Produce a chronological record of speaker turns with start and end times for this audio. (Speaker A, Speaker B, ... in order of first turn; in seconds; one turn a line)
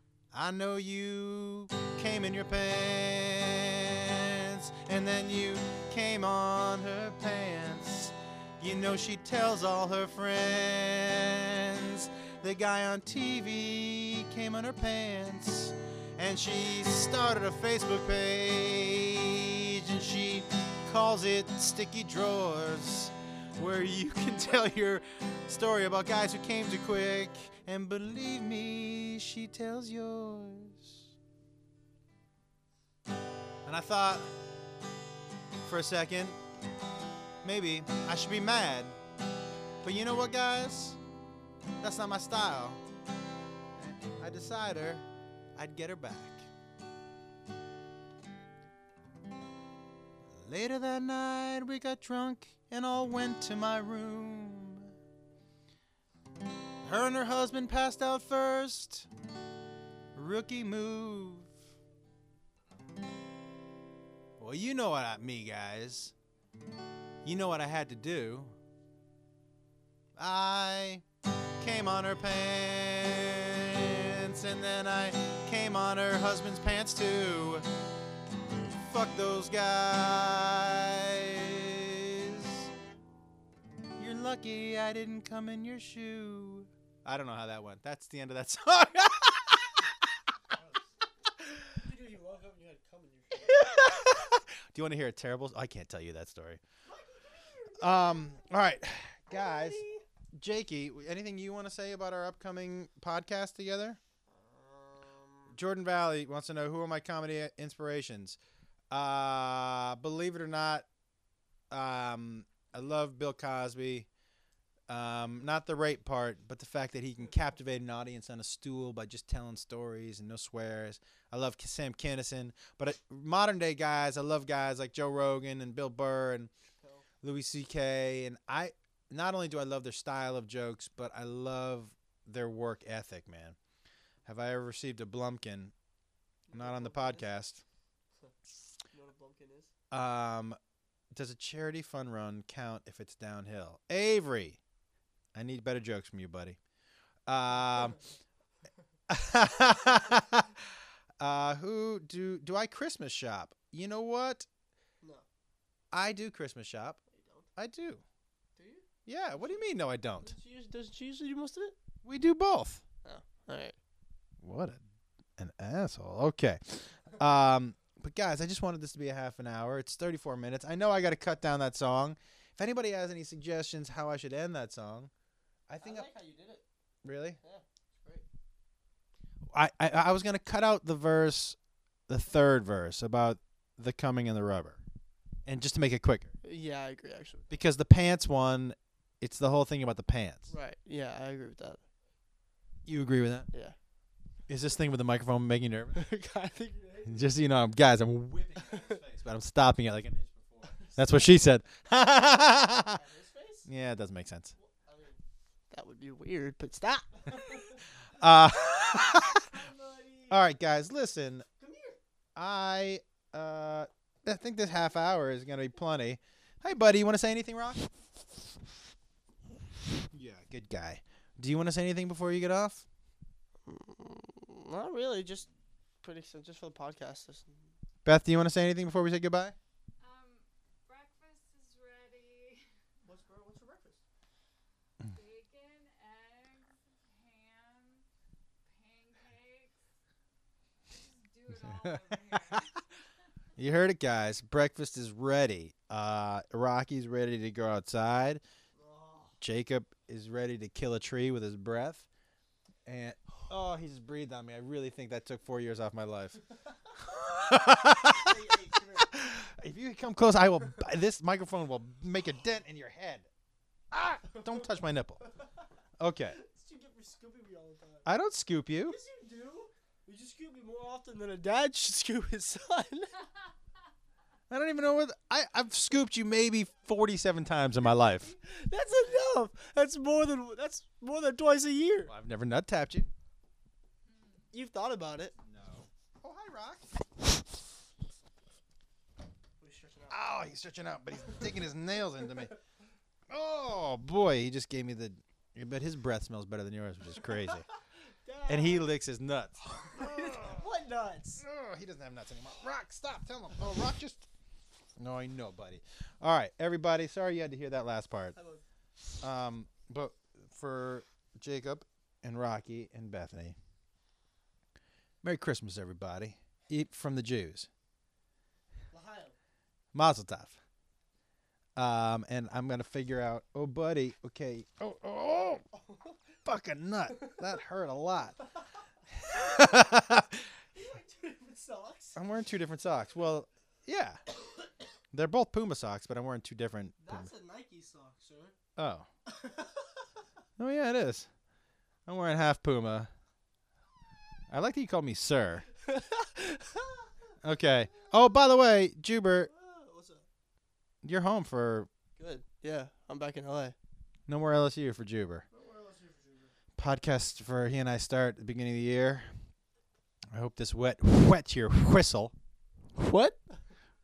Speaker A: 0.3-31.0
Speaker A: 33.6-34.4
Speaker A: 35.6-36.4
Speaker A: 37.4-39.0
Speaker A: 39.8-41.0
Speaker A: 41.8-42.8
Speaker A: 43.8-45.0
Speaker A: 45.5-46.5
Speaker A: 50.4-54.9
Speaker A: 56.8-59.1
Speaker A: 60.1-61.5
Speaker A: 64.4-66.1
Speaker A: 67.2-68.5
Speaker A: 70.2-71.0
Speaker A: 71.6-77.7
Speaker A: 78.6-82.7
Speaker A: 84.0-89.9
Speaker B: 90.5-90.8
Speaker B: 91.7-93.8
Speaker A: 93.4-96.6
Speaker B: 96.8-98.6
Speaker A: 97.8-99.8
Speaker B: 99.3-100.0
Speaker A: 100.3-104.0
Speaker B: 104.3-105.6
Speaker A: 105.5-108.4
Speaker A: 108.9-110.9
Speaker A: 111.7-114.1
Speaker A: 114.9-126.5
Speaker B: 126.8-127.0
Speaker A: 127.2-133.6
Speaker A: 134.2-135.7
Speaker B: 136.5-137.3
Speaker A: 136.5-137.6
Speaker B: 138.9-139.7
Speaker A: 139.9-140.6
Speaker A: 141.1-144.6
Speaker A: 145.3-146.6
Speaker A: 147.3-148.0
Speaker A: 149.1-154.5
Speaker B: 155.0-155.2
Speaker A: 155.9-157.0
Speaker B: 157.1-157.5
Speaker A: 157.6-158.0
Speaker B: 158.6-159.7
Speaker A: 159.0-160.3
Speaker B: 160.2-161.8
Speaker A: 162.0-162.8
Speaker B: 163.0-163.8
Speaker A: 164.4-164.8
Speaker A: 165.4-175.1
Speaker A: 175.7-176.1
Speaker B: 175.8-176.6
Speaker A: 177.0-177.4
Speaker B: 177.4-178.2
Speaker A: 179.5-181.6
Speaker A: 182.1-184.8
Speaker A: 185.4-186.3
Speaker B: 186.4-187.6
Speaker A: 187.5-190.5
Speaker B: 190.5-191.8
Speaker A: 192.8-193.5
Speaker A: 194.5-196.0
Speaker B: 195.9-197.2
Speaker A: 197.0-203.0
Speaker B: 200.6-201.0
Speaker B: 202.9-203.7
Speaker A: 203.7-204.5
Speaker B: 204.6-207.8
Speaker A: 208.0-209.5
Speaker B: 209.4-210.4
Speaker A: 210.3-211.4
Speaker B: 211.6-212.0
Speaker A: 212.3-217.9
Speaker A: 220.1-222.8
Speaker B: 223.7-225.5
Speaker B: 226.0-227.7
Speaker A: 228.0-229.5
Speaker C: 230.0-232.7
Speaker B: 233.0-234.0
Speaker C: 235.0-238.0
Speaker C: 238.7-239.8
Speaker C: 240.9-242.9
Speaker A: 241.6-242.6
Speaker A: 243.6-248.4
Speaker B: 248.7-249.4
Speaker A: 249.4-252.1
Speaker A: 252.9-256.4
Speaker A: 257.0-258.4
Speaker B: 258.1-259.1
Speaker A: 259.0-263.3
Speaker A: 263.9-265.2
Speaker A: 266.0-266.4
Speaker B: 266.3-268.1
Speaker A: 268.1-269.0
Speaker B: 268.8-273.2
Speaker A: 274.5-278.3
Speaker B: 277.8-282.1
Speaker A: 282.1-283.1
Speaker C: 284.1-284.5
Speaker B: 284.5-285.4
Speaker A: 285.4-287.0
Speaker B: 289.6-290.3
Speaker A: 290.1-292.6
Speaker A: 293.3-297.7
Speaker B: 297.2-298.9
Speaker A: 298.5-300.6
Speaker B: 299.6-301.4
Speaker A: 301.4-304.3
Speaker A: 305.0-308.3
Speaker B: 308.3-308.6
Speaker A: 309.2-313.6
Speaker A: 315.2-317.7
Speaker B: 318.9-319.4
Speaker A: 319.9-320.6
Speaker A: 321.8-325.6
Speaker B: 325.7-326.2
Speaker A: 326.4-328.4
Speaker A: 329.1-330.5
Speaker B: 330.7-332.2
Speaker A: 332.1-334.2
Speaker A: 335.1-337.3
Speaker B: 337.0-338.6
Speaker A: 338.8-339.1
Speaker B: 339.2-340.2
Speaker A: 340.6-341.3
Speaker A: 342.1-343.1
Speaker A: 344.5-345.7
Speaker B: 345.8-347.1
Speaker A: 347.4-349.5
Speaker B: 349.4-350.2
Speaker A: 351.0-351.9
Speaker B: 352.2-353.8
Speaker A: 354.3-355.4
Speaker B: 355.5-356.5
Speaker A: 356.8-359.5
Speaker A: 360.3-362.3
Speaker B: 362.9-363.7